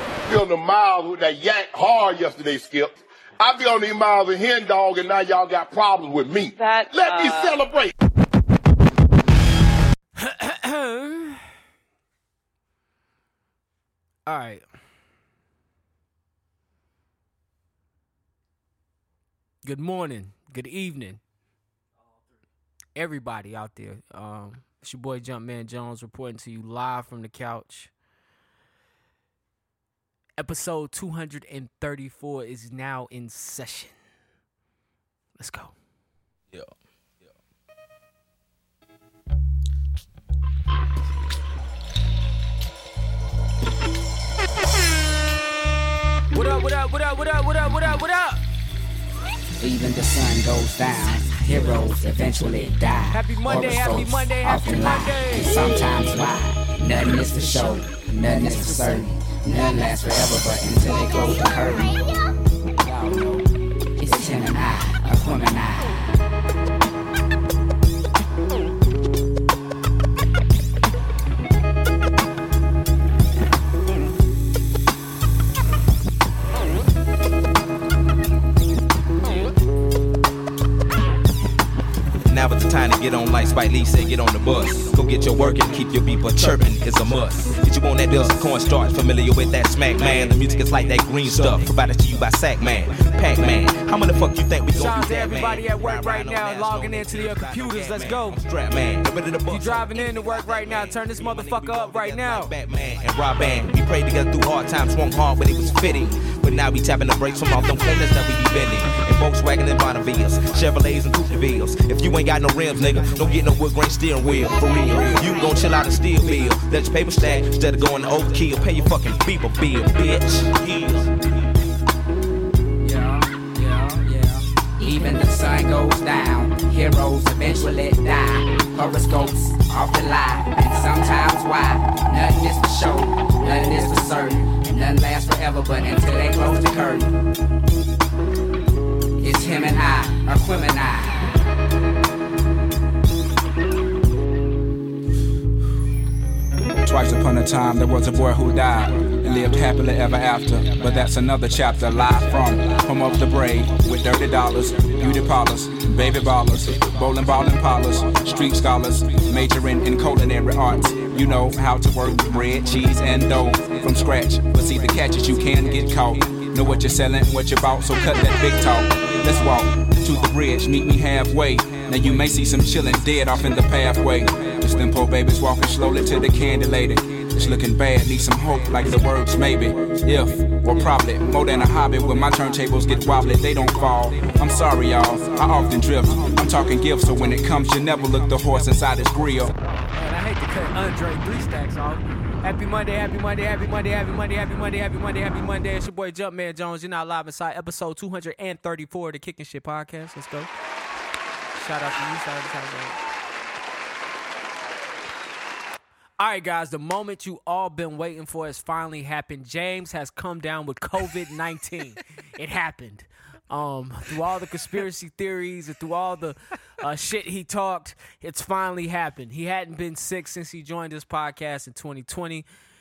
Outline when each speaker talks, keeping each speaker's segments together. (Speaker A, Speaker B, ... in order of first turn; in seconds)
Speaker A: 0.3-7.9
Speaker B: 10.2-11.5, 14.3-14.7, 19.6-21.2, 22.9-27.9, 30.4-34.0, 35.4-35.7, 46.3-48.4, 53.1-55.6, 90.0-90.3, 94.7-98.4, 99.5-102.6, 189.9-200.5, 201.5-203.0, 206.2-222.5
Speaker C: 49.6-62.0, 62.8-66.0, 124.8-137.2, 139.2-141.3
Speaker D: 82.3-121.1
Speaker E: 146.8-189.5